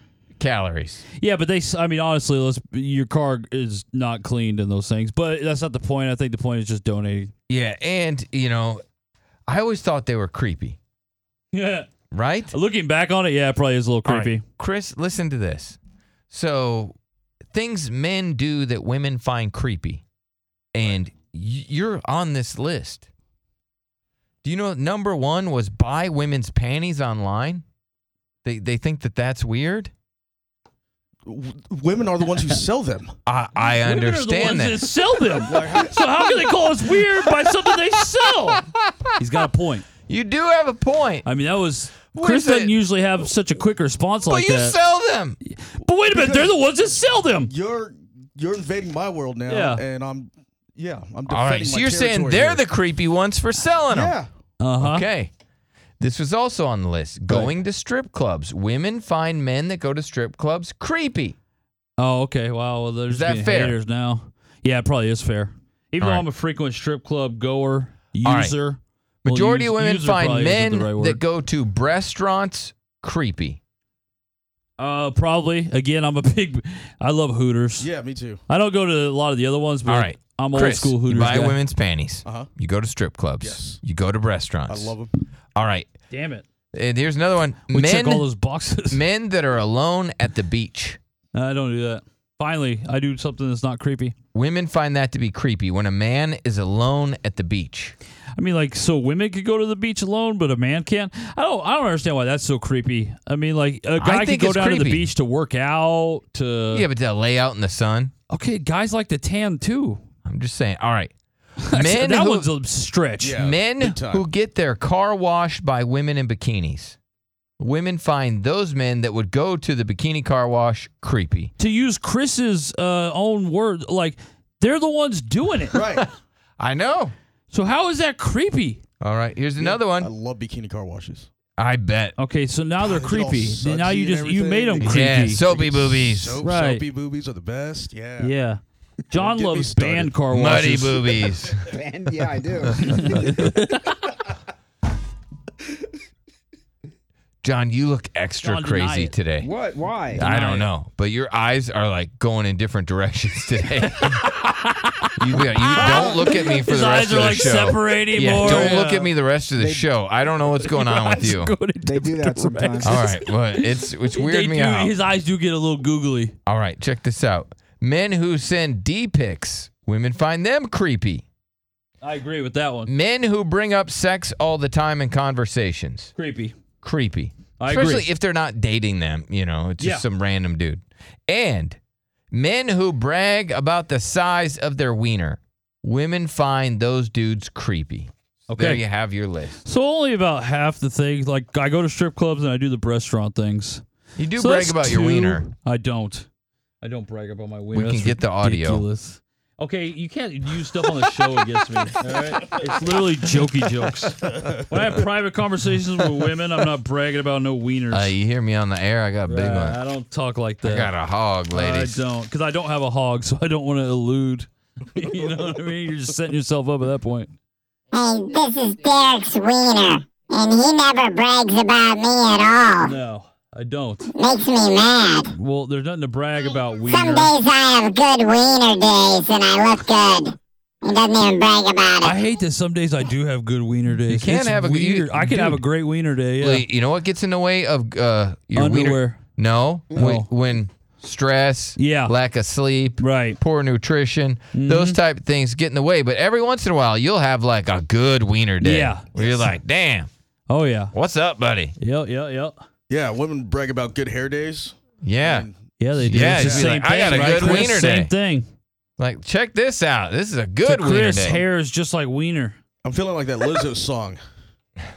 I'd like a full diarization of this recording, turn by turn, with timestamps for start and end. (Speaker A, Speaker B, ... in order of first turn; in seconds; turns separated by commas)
Speaker A: 0.4-1.1, Speaker B: 1.2-7.3, Speaker A: 7.5-8.8, Speaker A: 9.5-10.8, Speaker B: 11.5-11.9, Speaker A: 12.1-12.5, Speaker B: 12.5-14.4, Speaker A: 14.0-15.8, Speaker A: 16.3-16.9, Speaker A: 17.5-20.0, Speaker A: 20.7-23.1, Speaker A: 24.4-27.6, Speaker A: 28.4-29.9, Speaker C: 31.2-33.1, Speaker A: 33.2-34.8, Speaker B: 33.6-39.9, Speaker C: 35.4-36.0, Speaker A: 38.7-39.1, Speaker A: 40.1-41.2, Speaker B: 41.2-44.8, Speaker A: 42.1-42.7, Speaker A: 44.2-45.4, Speaker B: 45.4-47.5, Speaker C: 46.1-46.6, Speaker C: 47.4-52.6, Speaker B: 49.5-49.8, Speaker A: 51.3-54.2, Speaker C: 53.9-54.3, Speaker B: 54.6-55.1, Speaker A: 54.8-55.3, Speaker A: 56.0-61.3, Speaker C: 57.3-57.5, Speaker B: 62.0-71.2, Speaker A: 63.1-63.8, Speaker A: 66.0-66.2, Speaker A: 68.2-68.5, Speaker A: 69.2-73.6, Speaker B: 74.8-77.9, Speaker C: 77.8-78.4, Speaker B: 78.5-81.6, Speaker A: 79.8-84.9, Speaker C: 82.2-82.5, Speaker C: 83.4-83.8, Speaker C: 84.7-85.2, Speaker A: 85.5-85.9, Speaker B: 86.1-86.4, Speaker A: 86.7-88.2, Speaker B: 87.7-89.0, Speaker A: 88.9-91.0, Speaker B: 91.3-94.1, Speaker A: 94.3-97.9, Speaker B: 98.3-106.9, Speaker A: 104.0-105.1, Speaker A: 106.7-108.1, Speaker B: 108.3-110.0, Speaker A: 110.2-111.1, Speaker B: 111.6-113.4, Speaker A: 111.7-112.5, Speaker C: 113.2-114.3, Speaker A: 113.3-117.0, Speaker A: 117.6-121.5, Speaker B: 121.6-125.8, Speaker C: 125.7-126.1, Speaker A: 126.6-127.1, Speaker B: 127.5-128.8, Speaker A: 129.0-130.1, Speaker C: 129.6-131.3, Speaker A: 131.6-132.2, Speaker B: 132.2-135.4, Speaker C: 132.8-138.3, Speaker A: 134.8-136.4, Speaker B: 136.4-136.8, Speaker B: 138.2-141.0, Speaker C: 139.1-140.1, Speaker A: 140.3-141.7, Speaker D: 141.7-143.2, Speaker A: 142.6-143.1, Speaker B: 142.8-144.1, Speaker A: 147.4-149.5, Speaker B: 148.4-149.2, Speaker D: 149.4-150.2, Speaker A: 150.1-154.2, Speaker B: 150.1-150.7, Speaker B: 153.9-159.1, Speaker A: 155.2-161.5, Speaker D: 158.4-158.8, Speaker D: 159.6-159.9, Speaker B: 160.6-166.3, Speaker D: 161.8-163.0, Speaker A: 162.8-164.9, Speaker A: 166.4-171.2, Speaker B: 172.0-172.9, Speaker A: 172.9-176.1, Speaker B: 176.2-176.5, Speaker A: 176.8-181.8, Speaker B: 177.6-178.1, Speaker B: 179.8-180.1, Speaker A: 182.3-189.6, Speaker B: 188.5-188.8, Speaker B: 189.6-193.8, Speaker A: 194.2-195.4, Speaker B: 194.3-196.3, Speaker B: 196.8-208.1, Speaker A: 197.7-198.8, Speaker A: 207.9-209.8, Speaker B: 209.2-210.9, Speaker A: 210.6-212.0, Speaker B: 211.5-217.3, Speaker E: 217.9-222.9, Speaker B: 222.8-224.1, Speaker E: 224.1-225.3, Speaker B: 225.3-227.3, Speaker E: 226.9-232.2, Speaker B: 232.0-236.7, Speaker A: 234.1-235.6, Speaker A: 236.4-250.1, Speaker B: 238.5-239.2, Speaker B: 239.9-240.3, Speaker B: 241.8-242.1, Speaker B: 243.0-243.4, Speaker B: 244.5-245.0, Speaker B: 248.6-249.0, Speaker C: 249.2-249.5, Speaker B: 250.5-250.9, Speaker A: 250.9-251.8, Speaker B: 251.8-252.6, Speaker C: 252.9-257.6, Speaker A: 255.0-255.5, Speaker B: 255.8-258.5, Speaker A: 256.1-258.1, Speaker A: 259.0-261.4, Speaker B: 260.6-262.6, Speaker C: 262.8-264.2